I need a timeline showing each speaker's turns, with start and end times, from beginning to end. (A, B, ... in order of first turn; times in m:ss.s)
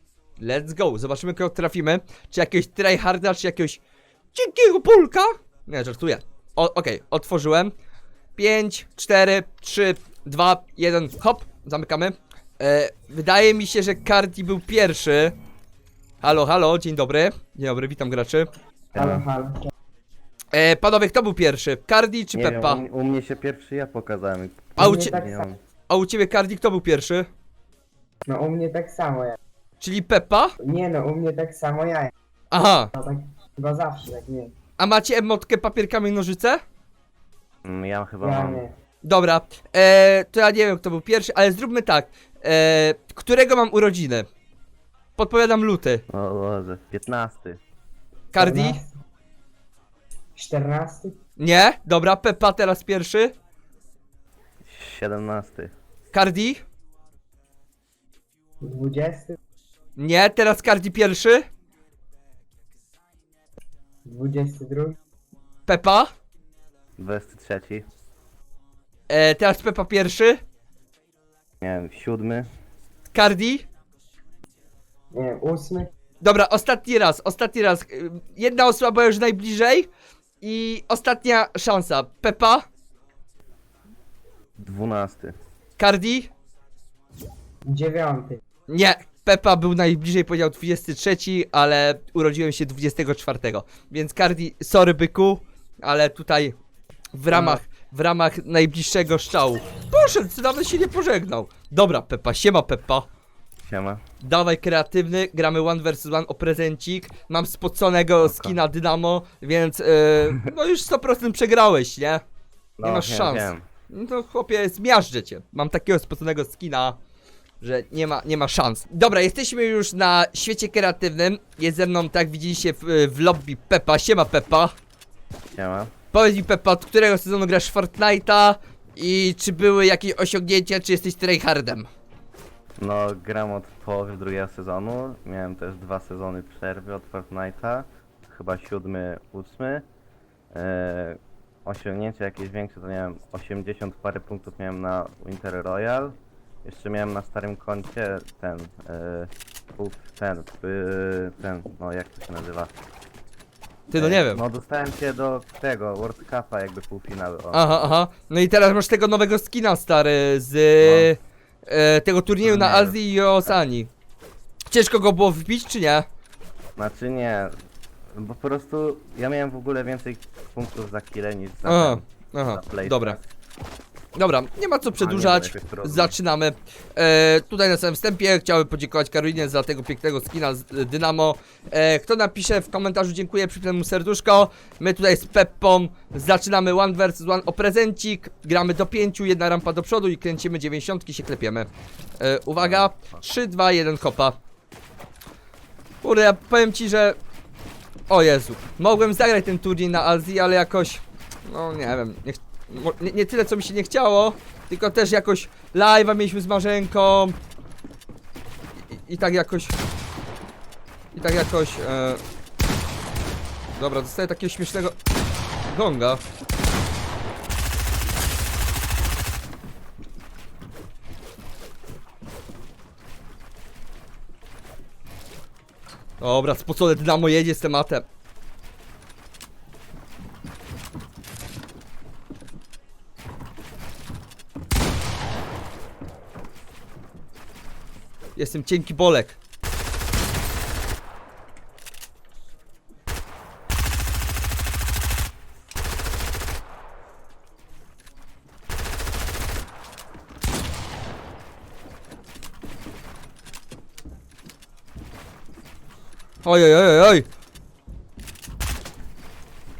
0:00.4-0:03.8 A
0:04.3-0:07.7 A
0:08.4-0:15.3 A
0:16.2-0:18.5 A
0:18.9-0:19.7 B
0:18.9-0:19.2 C
0:20.5-0:22.8 A
0:22.3-0:25.6 C
0:24.8-0:25.4 B
0:24.8-0:25.2 A
0:25.9-0:27.3 A
0:28.3-0:29.4 B
0:29.8-0:30.5 A
0:30.6-0:32.1 B
0:32.5-0:32.9 A
0:32.9-0:34.5 B
0:34.8-0:36.6 A
0:37.6-0:38.6 C
0:38.2-0:38.7 B
0:39.0-0:44.3 A
0:45.2-0:46.0 A
0:46.1-0:47.6 C
0:48.3-0:48.8 A
0:48.4-0:48.9 B
0:50.4-0:51.2 B
0:51.4-0:53.3 A
0:54.6-0:55.7 C
0:56.1-0:56.6 A
0:58.6-0:59.4 B
1:00.0-1:01.5 A
1:04.0-1:05.0 B
1:05.7-1:06.1 A
1:07.0-1:07.8 C
1:09.1-1:10.4 A
1:11.6-1:12.5 C
1:13.1-1:13.7 A
1:15.1-1:15.9 B
1:16.2-1:19.9 A
1:20.4-1:22.6 A
1:24.6-1:25.3 C
1:25.8-1:26.3 A
1:27.6-1:28.4 B
1:28.7-1:36.6 A
1:37.1-1:43.0 A
1:37.3-1:37.6 B
1:43.6-1:44.0 C
1:44.2-1:52.2 A
1:48.2-1:48.6 C
1:52.8-1:53.6 C
1:52.8-1:57.0 A
1:57.6-2:04.7 A
2:05.5-2:05.9 C
2:06.1-2:11.9 A
2:12.8-2:19.9 C
2:20.5-2:32.7 C
2:33.9-2:34.4 A
2:34.0-2:37.9 C
2:37.5-2:43.9 A
2:40.8-2:41.1 C
2:42.4-2:43.6 C
2:44.7-2:46.0 A
2:46.8-2:47.6 C
2:48.1-2:53.2 C
2:51.6-2:53.2 A
2:54.1-3:11.7 A
2:55.0-2:56.1 C
3:12.2-3:14.4 A
3:12.6-3:13.2 C
3:16.0-3:17.2 A
3:18.1-3:27.4 A
3:28.9-3:29.7 A
3:31.1-3:32.2 A
3:33.7-3:34.9 A
3:35.7-3:36.2 A
3:46.2-3:48.0 A
3:58.4-3:59.4 A
4:16.4-4:17.2 A